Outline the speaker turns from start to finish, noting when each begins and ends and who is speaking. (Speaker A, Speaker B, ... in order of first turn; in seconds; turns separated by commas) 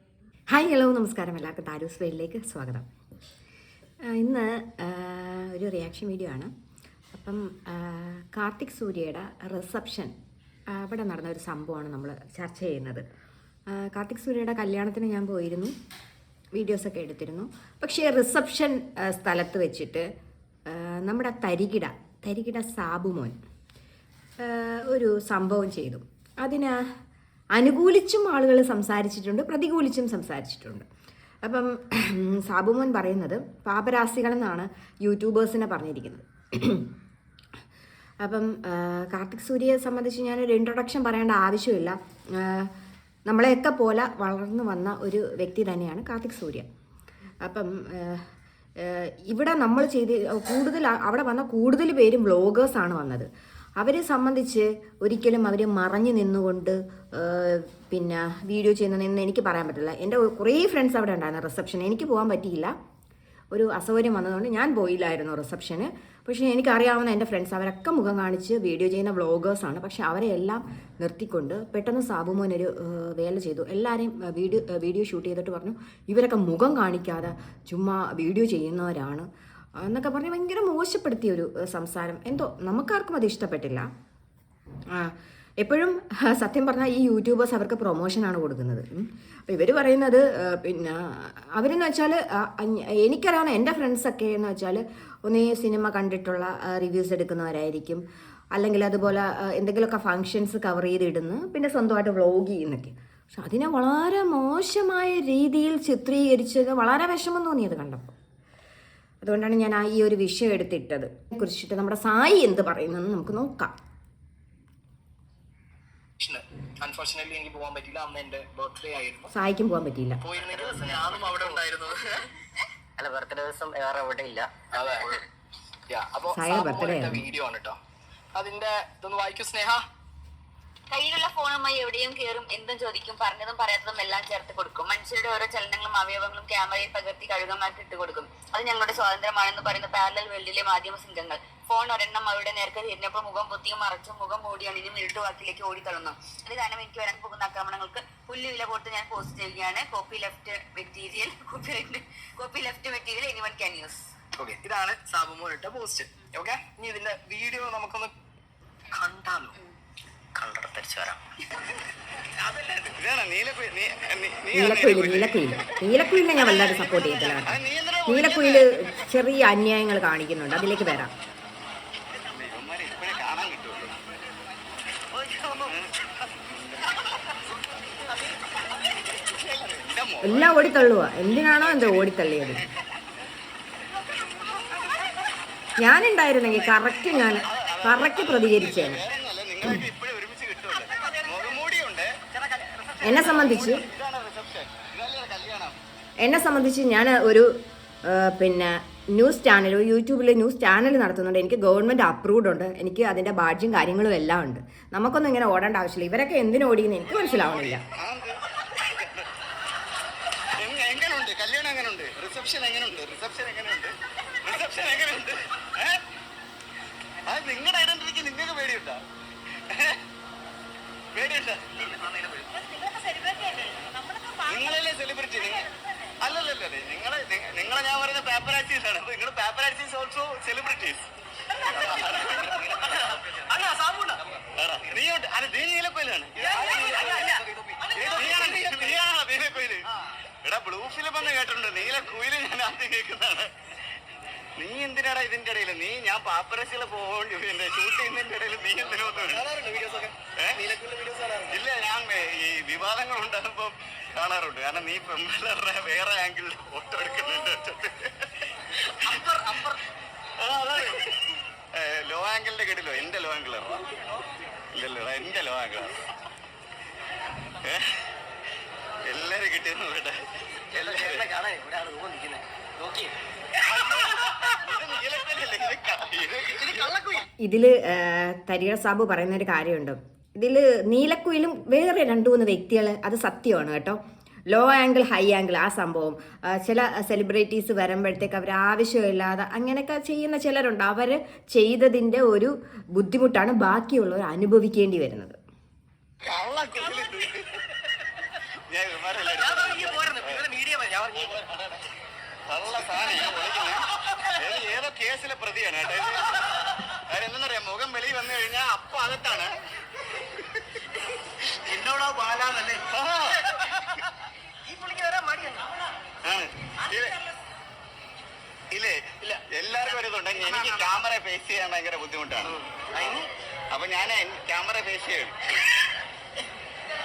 Speaker A: 0.5-2.9, Speaker A: 4.0-6.5, Speaker A: 7.1-10.1, Speaker A: 10.7-13.1, Speaker A: 13.7-15.7, Speaker A: 16.5-20.1, Speaker A: 20.7-23.4, Speaker A: 24.4-26.8, Speaker A: 27.6-30.9, Speaker A: 31.4-36.9, Speaker A: 38.2-42.7, Speaker A: 43.3-46.7, Speaker A: 47.4-62.8, Speaker A: 63.5-79.3, Speaker A: 79.8-83.9, Speaker A: 84.9-108.2, Speaker A: 109.2-113.8, Speaker B: 116.2-119.3, Speaker A: 119.3-120.2, Speaker B: 120.2-122.3, Speaker C: 120.3-121.6, Speaker C: 123.0-125.2, Speaker B: 124.7-125.1, Speaker B: 125.9-127.8, Speaker A: 126.3-127.2, Speaker B: 128.3-129.8, Speaker D: 130.9-154.0, Speaker B: 154.4-158.1, Speaker B: 159.0-159.5, Speaker C: 160.3-161.2, Speaker E: 162.9-165.8, Speaker A: 164.5-171.1, Speaker E: 166.4-168.9, Speaker E: 172.1-174.0, Speaker E: 175.1-176.0, Speaker E: 178.9-180.7, Speaker A: 180.2-182.6, Speaker E: 181.6-182.1, Speaker A: 185.8-189.0, Speaker E: 187.4-195.8, Speaker B: 190.9-191.2, Speaker B: 192.7-193.0, Speaker A: 193.0-193.9, Speaker A: 196.2-197.5, Speaker A: 198.1-207.8, Speaker E: 207.3-209.3, Speaker E: 210.6-216.0, Speaker E: 217.2-219.0, Speaker E: 219.7-220.0, Speaker E: 221.1-221.9, Speaker B: 221.7-222.6, Speaker E: 224.4-231.1, Speaker B: 231.6-234.2, Speaker E: 231.7-233.4, Speaker E: 234.6-239.8, Speaker B: 236.4-239.0, Speaker E: 240.4-243.5, Speaker E: 244.6-249.5, Speaker B: 249.2-251.6, Speaker E: 251.5-258.5, Speaker B: 259.0-259.8, Speaker E: 260.4-261.2, Speaker E: 261.7-264.2, Speaker E: 264.7-266.0, Speaker E: 267.6-268.0, Speaker E: 269.1-271.3, Speaker B: 270.8-272.4, Speaker C: 270.8-271.7, Speaker C: 272.3-273.1, Speaker E: 273.6-276.9, Speaker B: 273.8-274.1, Speaker B: 276.6-277.2, Speaker A: 277.4-284.0, Speaker A: 284.5-295.4, Speaker E: 296.2-297.6, Speaker E: 298.7-300.4, Speaker B: 299.3-301.4, Speaker E: 301.2-301.8, Speaker E: 302.5-309.6, Speaker B: 311.7-312.8, Speaker E: 311.8-314.1, Speaker B: 314.6-315.7, Speaker E: 316.2-317.2, Speaker E: 318.7-323.2, Speaker B: 319.2-320.9, Speaker E: 323.7-325.4